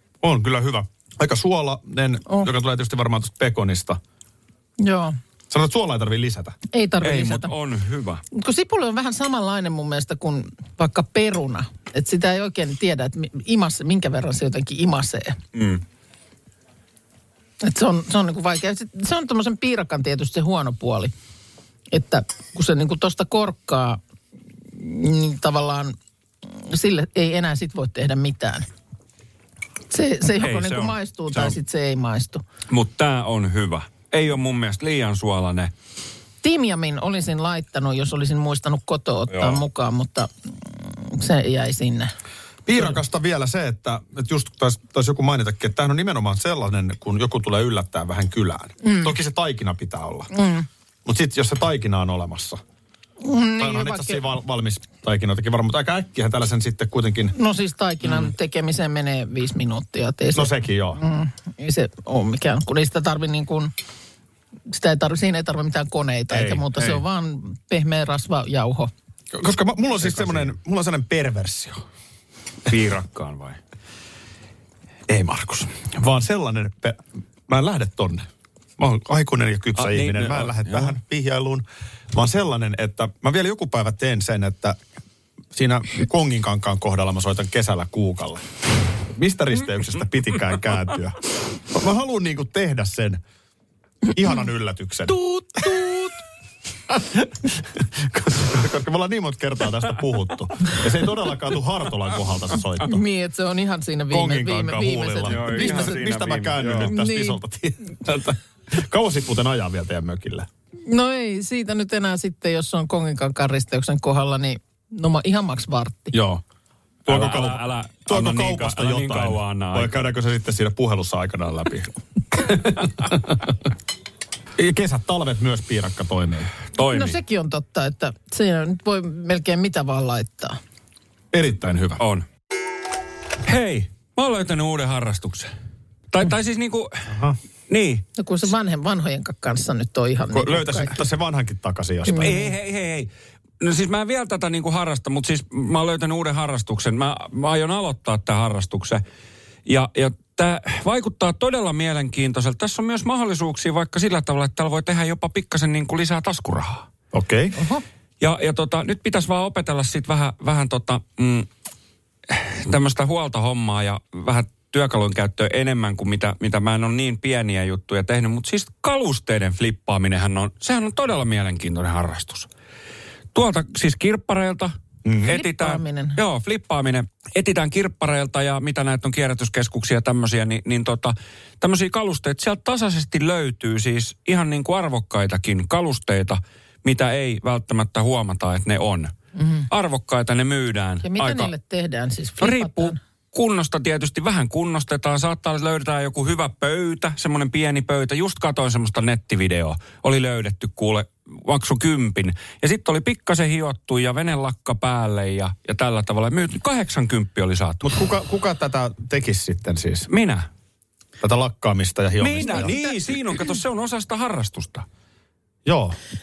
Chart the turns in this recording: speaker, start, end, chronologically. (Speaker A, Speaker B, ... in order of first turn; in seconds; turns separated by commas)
Speaker A: 0.2-4.0, Speaker B: 4.8-5.2, Speaker A: 5.5-6.5, Speaker B: 6.7-7.5, Speaker C: 7.0-8.2, Speaker B: 8.3-15.4, Speaker C: 15.5-15.8, Speaker B: 17.6-21.1, Speaker B: 21.9-24.0, Speaker B: 24.7-25.9, Speaker B: 26.5-28.7, Speaker B: 29.9-32.4, Speaker C: 30.4-31.6, Speaker C: 32.7-35.7, Speaker B: 36.4-42.1, Speaker C: 39.3-39.6, Speaker A: 42.6-50.3, Speaker B: 48.8-49.1, Speaker B: 50.3-50.6, Speaker A: 51.0-52.6, Speaker B: 53.2-54.2, Speaker A: 53.6-57.3, Speaker B: 57.3-63.7, Speaker A: 60.3-61.0, Speaker B: 64.7-68.9, Speaker C: 66.3-67.0, Speaker A: 69.3-71.8, Speaker C: 70.1-70.4, Speaker C: 72.7-73.6, Speaker A: 75.1-78.3, Speaker A: 78.8-84.8, Speaker C: 79.8-81.0, Speaker A: 85.5-88.4, Speaker A: 89.1-93.2, Speaker A: 94.1-95.7, Speaker B: 95.1-96.1, Speaker A: 96.9-103.0, Speaker B: 102.8-106.0, Speaker A: 104.1-110.5, Speaker C: 105.2-106.9, Speaker B: 106.9-107.4, Speaker B: 110.9-116.1, Speaker A: 116.1-116.4, Speaker C: 117.1-120.1, Speaker A: 117.1-123.3, Speaker A: 124.6-126.5, Speaker C: 126.7-127.2, Speaker B: 126.8-130.6, Speaker A: 131.3-132.0, Speaker C: 132.0-132.2, Speaker C: 133.4-135.5, Speaker C: 136.1-137.1, Speaker A: 137.1-137.4, Speaker C: 137.7-138.0, Speaker B: 138.2-141.0, Speaker A: 140.3-142.4, Speaker B: 142.1-142.4, Speaker C: 142.1-143.1, Speaker C: 143.6-149.0, Speaker C: 149.7-156.8, Speaker A: 157.1-157.6, Speaker B: 157.6-157.8, Speaker C: 158.2-161.5, Speaker C: 162.3-172.5, Speaker C: 173.3-189.1, Speaker B: 175.2-176.2, Speaker B: 189.3-189.7, Speaker C: 189.7-191.5, Speaker B: 191.0-193.0, Speaker C: 192.4-207.9, Speaker A: 207.8-210.1, Speaker C: 210.1-210.5, Speaker A: 211.2-212.7, Speaker C: 212.2-214.8, Speaker B: 212.5-212.9, Speaker A: 215.6-216.0